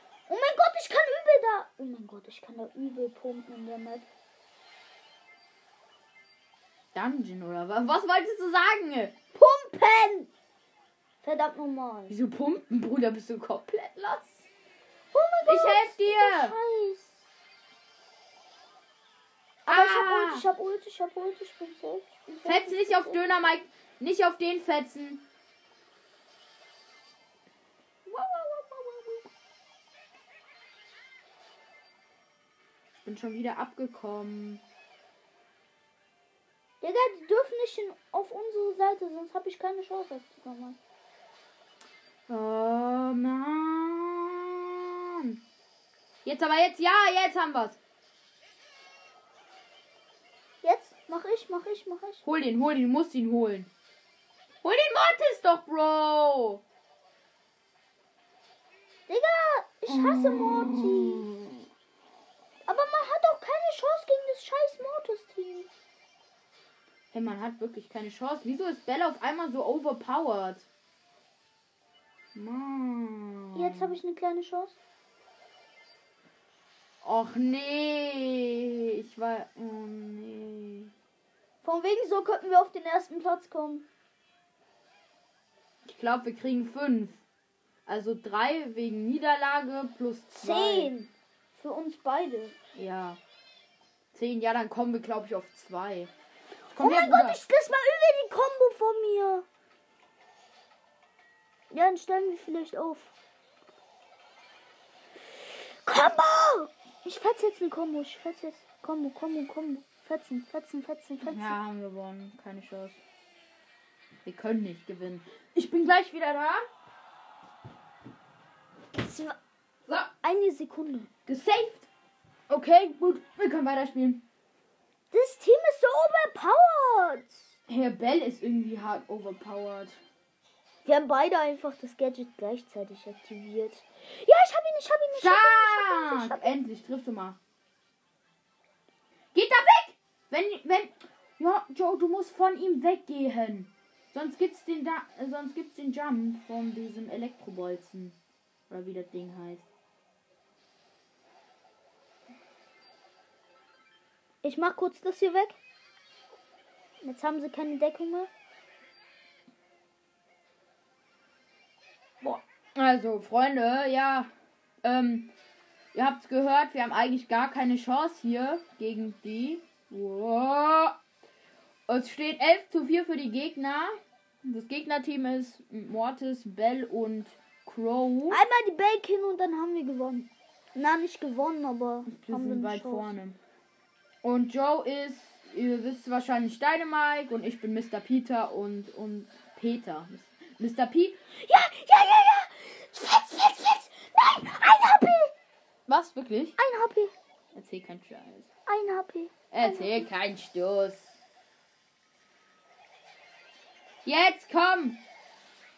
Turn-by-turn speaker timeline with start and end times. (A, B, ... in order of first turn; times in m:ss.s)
0:00.3-0:04.1 A
0:06.9-0:09.1 B
0:09.3-0:10.3 A
0:11.2-0:12.1 A
0:12.1-0:14.4 B
0:15.1-0:17.2 A
0:15.4-0:16.6 B
0:19.6-0:20.4 B
0:19.6-0:23.2 A
0:22.4-0:25.2 B
0:28.1-0:29.2 A
0:28.2-0:28.5 B
0:32.9-0:34.6 B
0:36.8-0:40.8 A
0:42.3-0:45.4 B
0:46.2-0:47.8 B
0:50.6-0:52.2 A
0:52.2-0:53.7 B
0:54.6-0:56.6 B
0:59.1-1:01.3 A
0:59.9-1:01.5 B
1:02.6-1:05.7 A
1:07.1-1:10.7 B
1:12.3-1:14.0 B
1:13.5-1:14.8 A
1:17.0-1:20.9 B
1:21.6-1:23.9 A
1:25.8-1:27.2 B
1:27.8-1:30.9 B
1:30.4-1:32.6 A
1:32.7-1:33.2 B
1:34.1-1:36.1 B
1:36.7-1:37.4 B
1:36.7-1:39.4 A
1:41.7-1:43.1 A
1:45.8-1:51.6 A
1:51.2-1:53.0 B
1:54.2-1:56.6 B
1:58.9-1:59.4 A
2:00.2-2:01.1 A
2:01.3-2:01.9 B
2:02.5-2:04.2 B
2:05.1-2:07.4 A
2:07.7-2:10.0 B
2:10.8-2:16.5 A
2:15.1-2:17.4 B
2:19.3-2:28.2 B
2:28.7-2:29.7 B
2:34.4-2:35.6 A
2:37.0-2:38.3 A
2:42.2-2:44.3 B
2:44.8-2:45.3 B
2:45.9-2:51.0 B
2:51.9-2:58.4 B
2:58.3-3:03.1 A
3:02.0-3:03.4 B
3:04.2-3:11.2 B
3:11.3-3:15.3 A
3:15.9-3:16.6 B
3:16.6-3:17.1 A
3:17.5-3:18.5 B
3:18.6-3:20.1 A
3:19.5-3:21.2 B
3:24.0-3:25.0 B